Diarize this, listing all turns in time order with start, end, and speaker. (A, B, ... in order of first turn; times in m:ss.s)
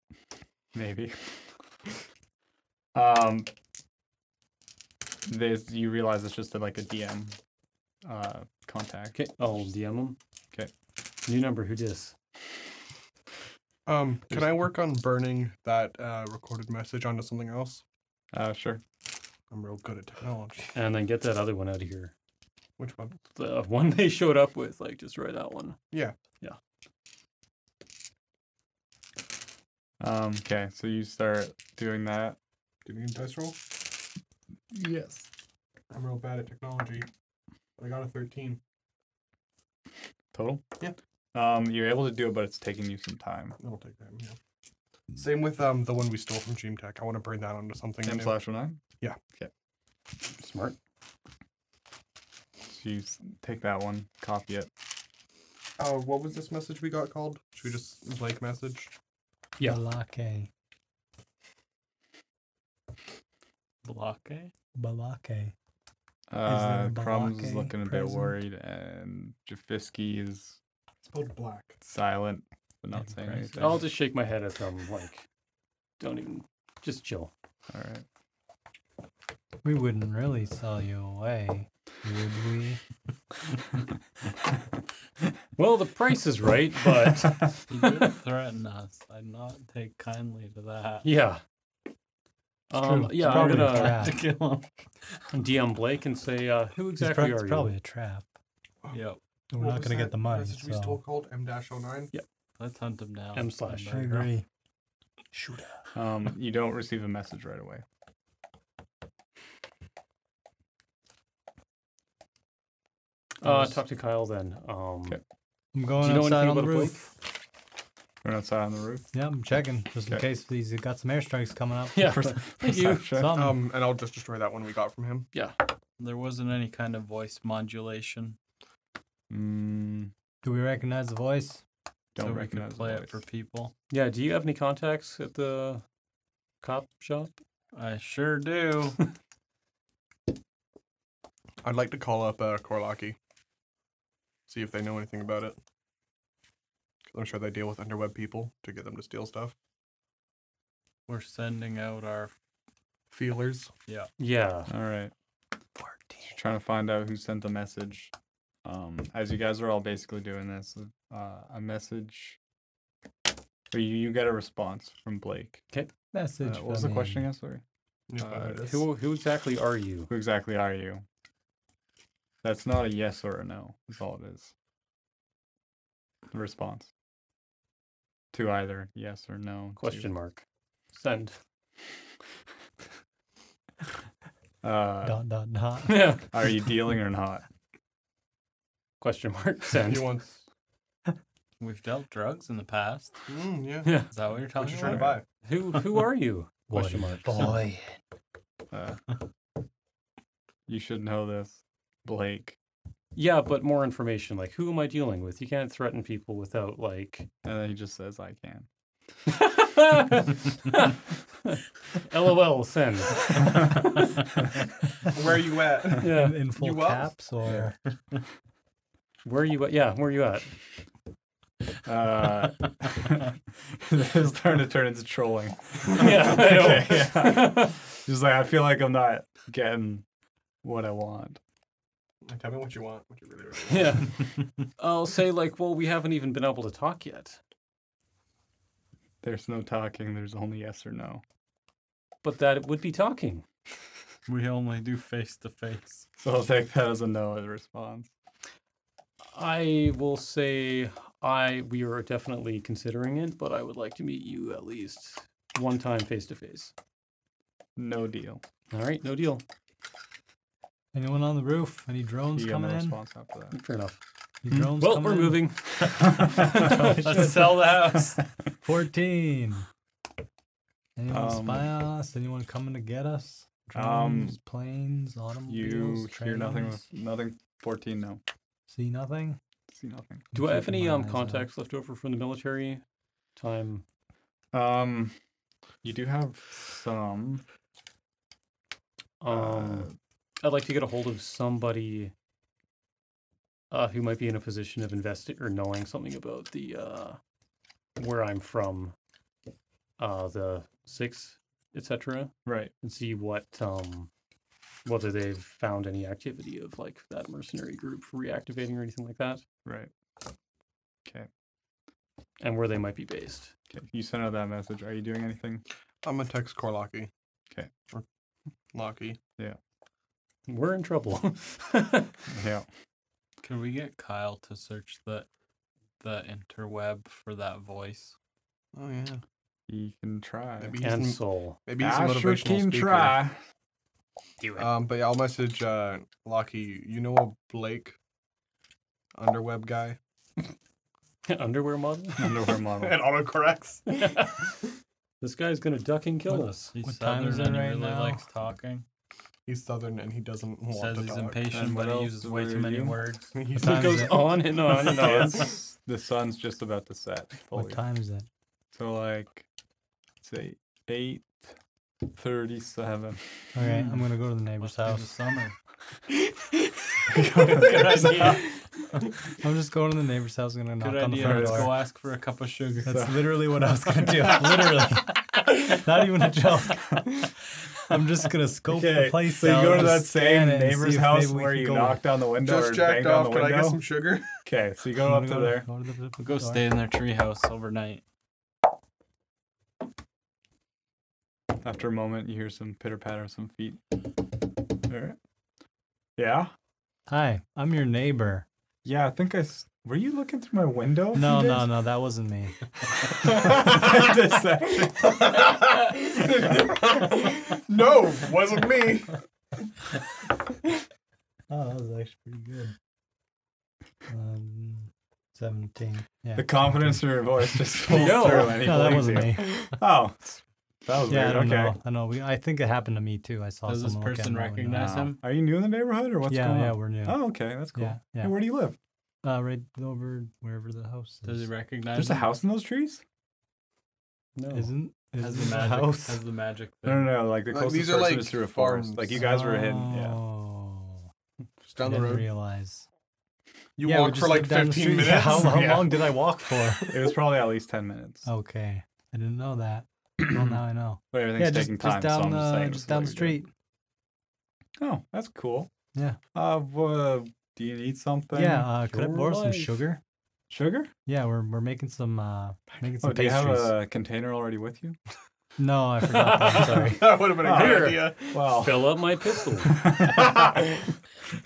0:00.7-0:01.4 A
0:02.9-0:03.5 A
0:05.2-0:07.4 A
0:08.0-0:09.2 A
0:09.1-0:10.2 B
0:11.2-0:12.1 B
0:13.8-0:17.8 C
0:18.3-0:18.8 A
0:19.5-0:20.7 C
0:20.7-0:22.1 B
0:22.8-0:23.2 C
0:23.3-0:25.8 B
0:30.0-0:32.4 A
0:32.8-0:33.6 C
0:34.7-0:35.3 A
0:35.9-0:37.1 C
0:37.8-0:38.6 C
0:40.3-0:40.6 A
0:41.3-0:43.6 A
0:43.6-0:44.4 C
0:45.1-0:48.4 C
0:48.0-0:48.8 A
0:50.3-0:50.8 B
0:52.7-0:54.7 A
0:55.8-0:58.9 C
0:59.6-1:00.5 D
1:03.8-1:04.5 E
1:04.8-1:05.5 D
1:06.3-1:10.6 A
1:06.4-1:08.4 D
1:11.0-1:11.8 C
1:11.8-1:13.8 A
1:13.1-1:13.6 E
1:13.6-1:15.2 B
1:16.0-1:17.3 B
1:17.7-1:18.0 A
1:19.6-1:22.8 D
1:25.6-1:27.6 B
1:27.7-1:31.1 E
1:31.0-1:31.4 B
1:32.7-1:34.2 B
1:32.8-1:34.2 D
1:33.2-1:34.7 E
1:33.3-1:33.7 A
1:35.3-1:37.7 B
1:37.0-1:38.3 D
1:38.9-1:39.2 E
1:39.5-1:41.0 D
1:39.5-1:42.1 C
1:42.6-1:44.3 E
1:43.3-1:44.0 B
1:43.8-1:44.4 D
1:45.9-1:47.8 A
1:53.4-1:55.2 B
1:55.7-1:57.1 D
1:56.0-1:57.1 B
1:58.2-1:59.1 A
1:59.1-2:02.0 D
2:01.9-2:03.1 B
2:02.0-2:03.4 A
2:03.1-2:03.6 D
2:03.3-2:05.3 C
2:06.0-2:08.4 E
2:09.3-2:10.1 A
2:10.4-2:11.6 D
2:12.2-2:13.2 A
2:12.2-2:13.7 E
2:13.9-2:15.8 B
2:16.6-2:17.3 B
2:17.7-2:19.0 E
2:21.6-2:23.2 C
2:24.5-2:25.6 C
2:27.1-2:29.5 C
2:31.1-2:32.3 E
2:33.1-2:33.7 C
2:34.2-2:34.7 B
2:34.7-2:35.1 A
2:36.2-2:38.1 A
2:38.6-2:42.4 A
2:43.7-2:45.6 A
2:46.1-2:47.3 D
2:46.4-2:47.6 A
2:48.1-2:48.8 C
2:48.2-2:48.5 A
2:48.5-2:50.1 B
2:50.1-2:51.0 A
2:52.4-2:54.5 A
2:56.3-2:56.9 A
2:58.3-3:00.1 A
2:59.8-3:01.4 B
3:04.6-3:05.2 A
3:05.0-3:06.1 D
3:05.9-3:06.3 B
3:06.3-3:07.4 A
3:09.0-3:10.1 B
3:09.8-3:10.4 C
3:11.6-3:13.1 E
3:13.3-3:14.0 C
3:13.8-3:14.1 B
3:14.1-3:15.2 E
3:14.5-3:15.2 C
3:14.8-3:17.6 B
3:16.7-3:17.8 D
3:18.7-3:19.0 A
3:20.7-3:22.6 A
3:23.1-3:27.3 B
3:27.4-3:28.7 A
3:29.3-3:30.9 B
3:31.5-3:34.1 B
3:35.1-3:37.1 C
3:36.0-3:37.8 D
3:36.0-3:36.4 B
3:39.2-3:40.5 B
3:41.8-3:50.0 A
3:45.9-3:47.8 B
3:50.6-3:51.4 A
3:52.2-3:54.1 C
3:53.7-3:57.4 B
3:59.2-4:01.2 A
4:02.2-4:03.4 B
4:04.3-4:06.1 E
4:06.2-4:08.1 A
4:09.3-4:16.7 B
4:17.8-4:18.4 A
4:18.7-4:19.4 B
4:20.9-4:23.0 D
4:22.4-4:23.6 A
4:23.5-4:24.0 B
4:24.4-4:25.4 D
4:24.7-4:27.7 B
4:26.2-4:28.0 A
4:26.6-4:28.2 E
4:28.6-4:29.6 D
4:31.0-4:36.8 D
4:31.1-4:31.7 A
4:33.7-4:34.4 A
4:35.5-4:38.2 A
4:38.7-4:39.4 D
4:39.7-4:40.2 A
4:40.3-4:41.5 D
4:40.3-4:42.8 B
4:43.4-4:43.8 B
4:44.5-4:45.2 A
4:45.8-4:47.4 A
4:49.2-4:49.9 B
4:49.3-4:49.9 A
4:50.4-4:52.1 B
4:53.7-4:57.2 B
4:58.0-4:58.9 B
5:00.0-5:04.1 B
5:02.4-5:02.7 A
5:04.8-5:09.4 B
5:09.6-5:09.9 A
5:12.4-5:13.5 B
5:13.7-5:15.6 A
5:16.0-5:17.1 C
5:18.7-5:19.2 C
5:20.5-5:22.2 B
5:22.3-5:22.6 A
5:23.4-5:25.3 E
5:26.0-5:28.2 E
5:28.7-5:29.2 C
5:29.7-5:30.7 A
5:30.6-5:33.2 C
5:30.8-5:31.6 B
5:31.8-5:33.4 A
5:34.4-5:34.7 B
5:34.6-5:38.0 C
5:39.2-5:40.0 C
5:41.2-5:42.4 B
5:42.2-5:43.0 A
5:42.8-5:44.2 C
5:44.0-5:44.6 B
5:45.2-5:46.7 B
5:46.3-5:48.8 E
5:46.8-5:48.2 D
5:49.4-5:51.5 C
5:50.7-5:53.4 E
5:51.5-5:53.1 A
5:53.3-5:54.3 C
5:53.6-5:55.6 B
5:53.6-5:54.3 D
5:54.8-5:57.8 A
5:57.5-5:58.3 D
5:58.7-5:59.5 A
6:00.2-6:01.6 A
6:02.1-6:03.6 A
6:03.5-6:05.1 D
6:04.6-6:05.5 E
6:07.1-6:08.4 A
6:07.5-6:08.3 E
6:07.9-6:08.3 B
6:09.4-6:11.8 D
6:10.8-6:13.0 E
6:11.2-6:11.8 A
6:12.8-6:13.2 A
6:12.8-6:17.2 D
6:17.9-6:22.0 D
6:18.7-6:23.8 A
6:22.4-6:24.2 C
6:24.4-6:25.6 A
6:25.0-6:26.7 D
6:26.2-6:28.0 E
6:31.6-6:33.8 A
6:34.9-6:35.2 A
6:36.2-6:36.5 A
6:37.1-6:38.4 D
6:38.8-6:41.7 A
6:41.1-6:42.6 D
6:43.0-6:45.4 A
6:44.9-6:49.2 C
6:51.5-6:52.7 D
6:54.1-6:57.0 D
6:56.4-7:01.8 A
6:57.9-6:58.8 B
6:58.4-6:59.8 D
7:01.1-7:05.1 D
7:03.6-7:05.2 E
7:04.7-7:08.8 A
7:06.3-7:07.2 D
7:07.7-7:08.4 D
7:09.2-7:11.5 D
7:11.2-7:12.3 E
7:11.9-7:13.0 A
7:14.4-7:14.7 B
7:14.5-7:16.2 D
7:15.2-7:17.2 E
7:16.8-7:20.2 A
7:17.5-7:19.2 C
7:19.1-7:21.0 D
7:21.6-7:22.3 C
7:21.8-7:22.9 D
7:23.8-7:26.1 C
7:23.8-7:26.9 D
7:25.5-7:25.9 A
7:26.9-7:28.3 A
7:28.2-7:33.5 D
7:30.2-7:30.6 A
7:31.1-7:33.4 A
7:34.8-7:35.7 A
7:36.3-7:38.7 A
7:38.3-7:40.0 D
7:38.9-7:39.8 B
7:40.5-7:40.9 A
7:41.1-7:43.8 D
7:43.0-7:45.0 A
7:45.6-7:47.1 D
7:46.2-7:49.8 B
7:46.8-7:48.4 C
7:47.4-7:49.0 A
7:49.6-7:50.6 A